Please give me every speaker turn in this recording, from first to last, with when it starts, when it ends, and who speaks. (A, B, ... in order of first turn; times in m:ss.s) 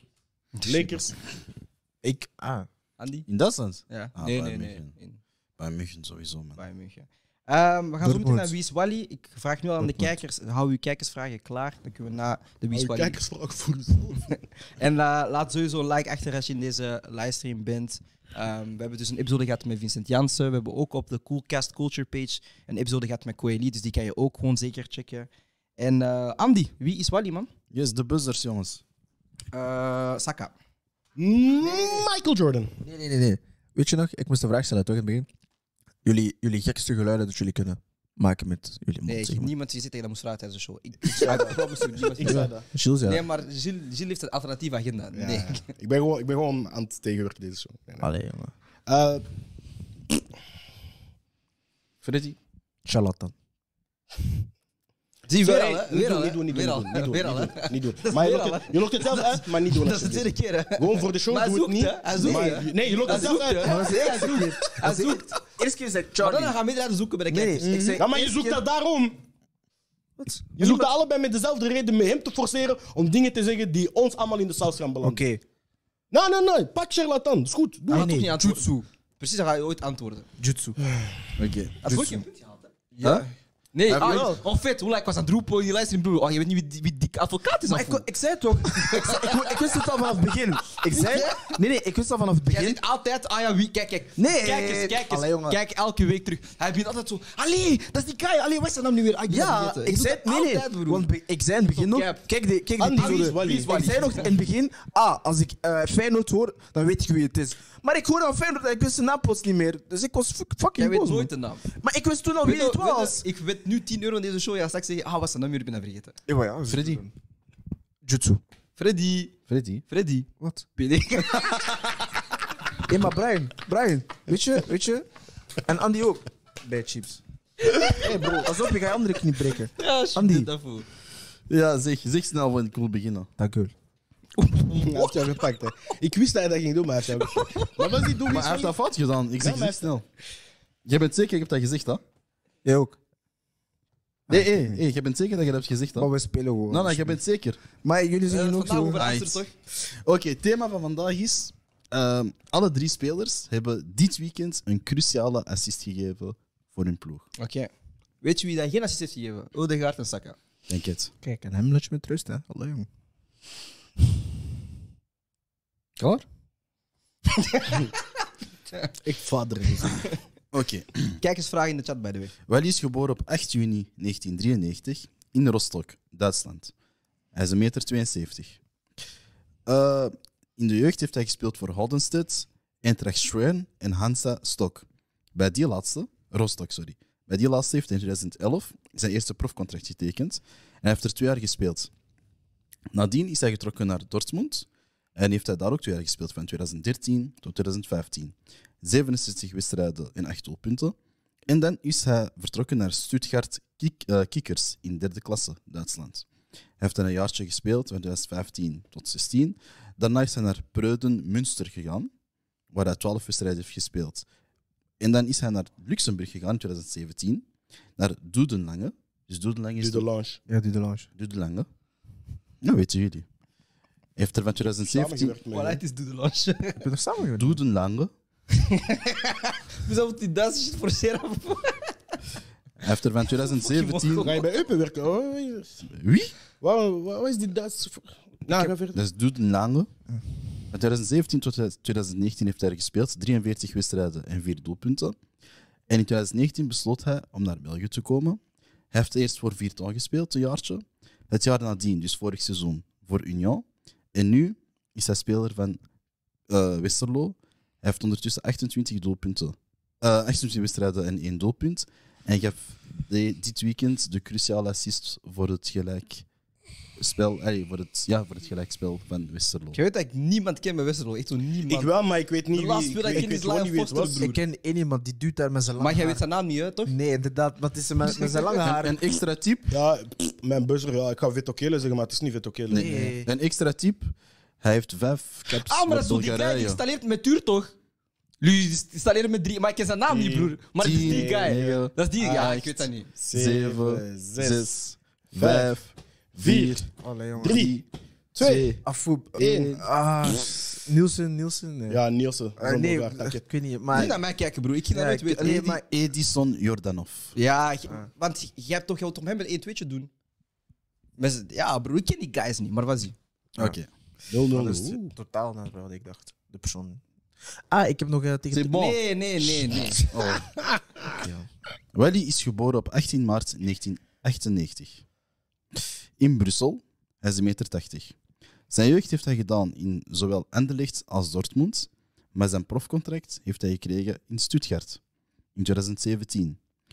0:00.6-0:01.0 A
0:00.6-0:01.2 B
0:02.0-0:02.7 C
0:03.0-0:03.3 A
0:03.3-0:04.9 D
0:03.9-0:05.2 A
0:05.6-0:06.6 D
0:06.6-0:13.2 A
0:08.0-0:08.5 C
0:12.7-0:14.3 B
0:14.3-0:27.5 A
0:27.7-0:28.8 D
0:29.5-0:30.5 A
0:31.2-0:32.7 B
0:32.8-0:35.3 C
0:36.0-0:39.5 C
0:39.0-0:42.5 A
0:41.1-0:41.5 C
0:41.1-0:42.6 B
0:42.2-0:43.2 C
0:43.0-0:45.6 A
0:45.1-0:48.1 B
0:48.0-0:48.5 C
0:48.9-0:49.2 B
0:52.0-0:52.4 D
0:52.8-0:53.3 C
0:55.3-1:05.5 A
0:55.4-1:03.8 B
1:02.2-1:06.6 C
1:06.2-1:08.0 A
1:07.3-1:08.6 C
1:07.6-1:08.0 D
1:08.0-1:09.2 B
1:10.2-1:10.9 C
1:10.6-1:15.2 B
1:15.0-1:15.4 C
1:16.1-1:18.1 B
1:17.9-1:20.3 A
1:17.9-1:18.8 C
1:20.4-1:20.8 C
1:21.4-1:21.8 D
1:21.8-1:28.0 A
1:21.8-1:22.2 C
1:23.0-1:23.2 C
1:23.9-1:24.3 D
1:23.9-1:24.4 C
1:27.7-1:32.8 C
1:28.6-1:29.6 A
1:30.8-1:31.6 A
1:32.5-1:41.1 A
1:34.2-1:35.6 C
1:39.3-1:53.2 C
1:41.7-1:42.3 A
1:42.8-1:43.8 B
1:43.0-1:44.3 A
1:50.8-1:51.6 A
1:52.4-1:56.2 A
1:56.3-1:57.1 C
1:56.7-1:57.0 D
1:58.0-1:58.4 C
1:58.8-2:02.2 A
1:59.5-1:59.8 D
2:00.4-2:00.6 C
2:02.8-2:05.1 C
2:05.6-2:07.2 C
2:07.6-2:08.0 A
2:08.0-2:08.5 B
2:08.3-2:10.5 C
2:09.8-2:10.8 A
2:11.5-2:13.3 D
2:13.4-2:13.7 C
2:14.4-2:15.4 A
2:14.8-2:18.7 B
2:17.3-2:17.7 A
2:18.2-2:20.0 D
2:19.4-2:19.9 B
2:20.8-2:22.0 D
2:22.6-2:23.0 C
2:24.3-2:26.1 D
2:24.3-2:24.8 C
2:26.0-2:27.2 C
2:26.7-2:27.6 D
2:27.8-2:29.1 C
2:28.3-2:29.5 A
2:29.0-2:37.3 D
2:37.4-2:37.7 A
2:38.2-2:40.4 A
2:40.7-2:41.1 D
2:41.2-2:42.9 C
2:46.0-2:46.2 D
2:47.4-2:47.9 A
2:49.0-2:50.1 B
2:50.5-2:51.2 D
2:51.2-2:52.3 A
2:52.5-2:56.7 D
2:57.3-2:58.6 D
2:59.6-3:11.9 D
3:12.9-3:21.0 D
3:21.5-3:26.3 D
3:26.8-3:32.1 D
3:32.7-3:34.2 D
3:35.0-3:37.4 D
3:38.0-3:40.1 D
3:39.8-3:40.4 B
3:40.5-3:41.1 C
3:41.2-3:41.7 D
3:42.6-3:43.3 D
3:44.2-3:45.4 D
3:44.8-3:45.8 B
3:45.5-3:46.9 A
3:46.8-3:47.6 C
3:47.3-3:48.1 D
3:48.5-3:51.9 A
3:52.8-3:54.3 D
3:53.3-3:54.5 A
3:54.2-3:55.8 B
3:55.9-3:56.3 D
3:56.6-3:59.0 B
3:58.9-3:59.9 D
4:00.7-4:05.2 D
4:05.9-4:08.4 D
4:08.9-4:15.8 D
4:16.5-4:26.2 D
4:27.0-4:29.8 D
4:29.7-4:31.9 A
4:31.7-4:34.2 B
4:32.5-4:34.4 A
4:34.2-4:36.2 C
4:35.8-4:36.9 A
4:36.9-4:39.0 C
4:38.2-4:39.7 D
4:39.7-4:43.1 B
4:42.7-4:46.8 D
4:42.7-4:43.3 C
4:45.5-4:47.7 A
4:48.4-4:53.1 A
4:50.1-4:54.7 B
4:50.8-4:51.9 D
4:53.3-4:58.8 D
4:55.4-4:55.8 B
4:56.4-4:56.8 B
4:57.0-4:57.7 C
4:57.4-4:57.7 B
4:58.4-4:58.8 B
4:58.8-5:02.0 C
4:59.4-4:59.8 B
5:01.9-5:03.4 B
5:02.6-5:04.2 C
5:03.9-5:05.8 A
5:04.9-5:05.8 C
5:05.6-5:07.3 D
5:07.4-5:10.1 A
5:11.2-5:13.1 A
5:13.6-5:13.9 D
5:14.3-5:15.1 B
5:14.5-5:17.0 C
5:17.7-5:18.8 C
5:18.5-5:20.5 D
5:18.7-5:20.1 A
5:21.1-5:21.5 C
5:21.9-5:25.0 D
5:25.8-5:28.1 D
5:28.7-5:35.0 D
5:35.6-5:36.6 D